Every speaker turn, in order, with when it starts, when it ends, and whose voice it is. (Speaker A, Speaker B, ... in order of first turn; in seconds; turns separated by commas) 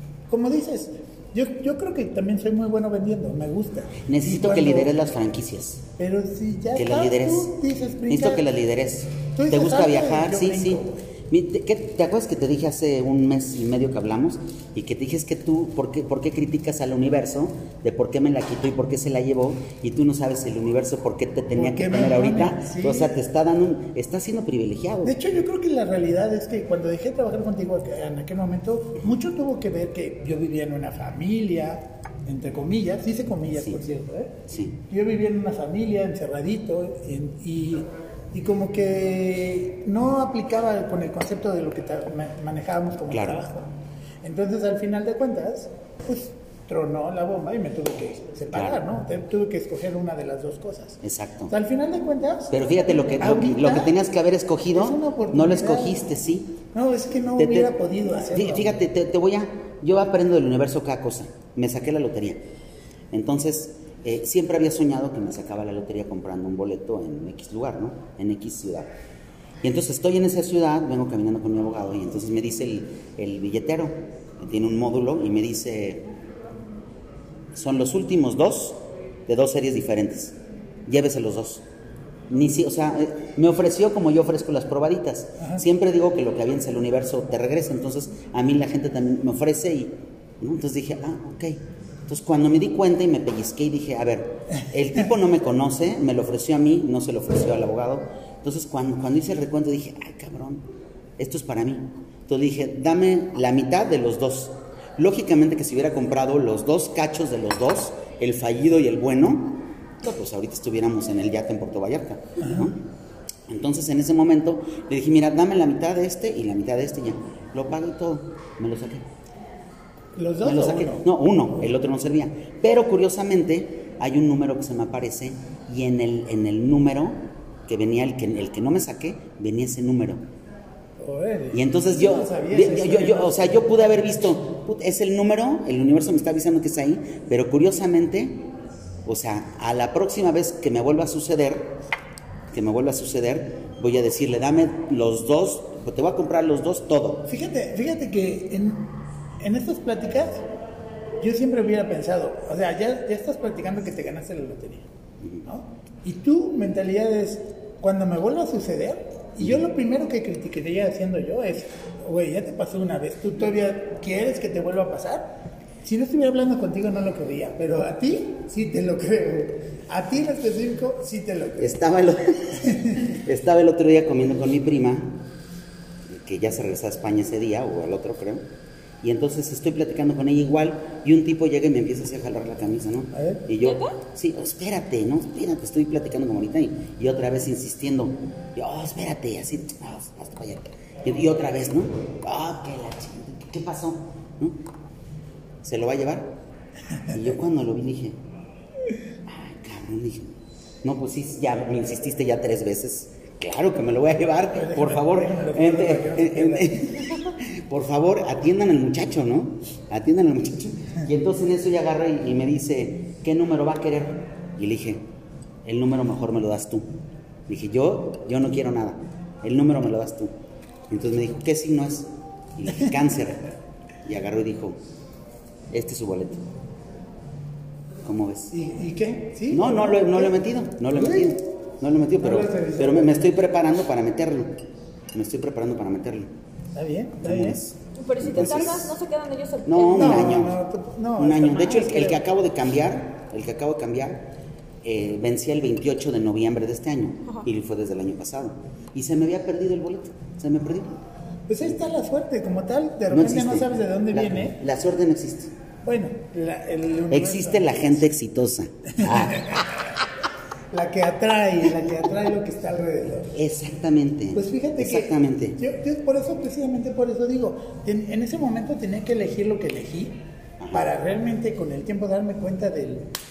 Speaker A: 0.3-4.9, Speaker B: 4.0-5.8, Speaker A: 6.0-8.5, Speaker B: 6.8-7.5, Speaker B: 8.1-25.1, Speaker A: 9.3-11.0, Speaker A: 21.6-23.1, Speaker A: 25.0-54.0, Speaker B: 33.6-33.8, Speaker B: 34.5-34.8, Speaker B: 43.1-43.4, Speaker B: 48.5-48.8, Speaker B: 51.0-51.5, Speaker B: 52.5-56.6, Speaker A: 54.7-56.0, Speaker A: 56.7-58.8, Speaker B: 57.3-57.7, Speaker B: 58.3-62.4, Speaker B: 63.1-68.9, Speaker B: 69.6-76.1, Speaker B: 77.5-81.7, Speaker B: 82.3-100.7, Speaker B: 101.2-112.8, Speaker A: 112.4-112.7, Speaker B: 113.5-119.0, Speaker A: 120.2-121.1, Speaker B: 120.4-130.2, Speaker A: 131.0-133.9, Speaker B: 131.5-138.5, Speaker B: 139.1-141.8, Speaker B: 142.5-147.3, Speaker A: 147.3-150.4, Speaker A: 151.2-154.8, Speaker A: 155.5-171.8, Speaker B: 171.6-175.2, Speaker A: 172.6-173.2, Speaker B: 176.1-178.5, Speaker B: 179.0-194.6, Speaker A: 183.1-183.4, Speaker C: 183.6-184.0, Speaker B: 195.6-196.3, Speaker B: 197.1-198.2, Speaker B: 199.3-215.1, Speaker A: 204.5-206.9, Speaker B: 215.7-216.9, Speaker B: 217.5-220.3, Speaker B: 220.9-223.5, Speaker B: 224.1-224.8, Speaker B: 225.7-226.4, Speaker B: 228.0-228.5, Speaker A: 228.5-230.3, Speaker B: 229.5-234.6, Speaker A: 230.9-231.4, Speaker A: 232.2-233.3, Speaker B: 235.1-236.3, Speaker A: 236.8-237.6, Speaker B: 237.2-238.9, Speaker C: 238.0-240.2, Speaker A: 238.3-238.8, Speaker B: 239.7-240.6, Speaker A: 240.0-242.2, Speaker B: 241.2-244.3, Speaker B: 244.8-250.9, Speaker A: 251.5-254.6, Speaker B: 253.1-255.5, Speaker A: 255.8-258.1, Speaker B: 257.1-259.6, Speaker A: 259.0-259.8, Speaker A: 260.7-263.3, Speaker B: 263.3-265.6, Speaker A: 264.3-270.2, Speaker B: 270.6-270.9, Speaker A: 270.7-273.1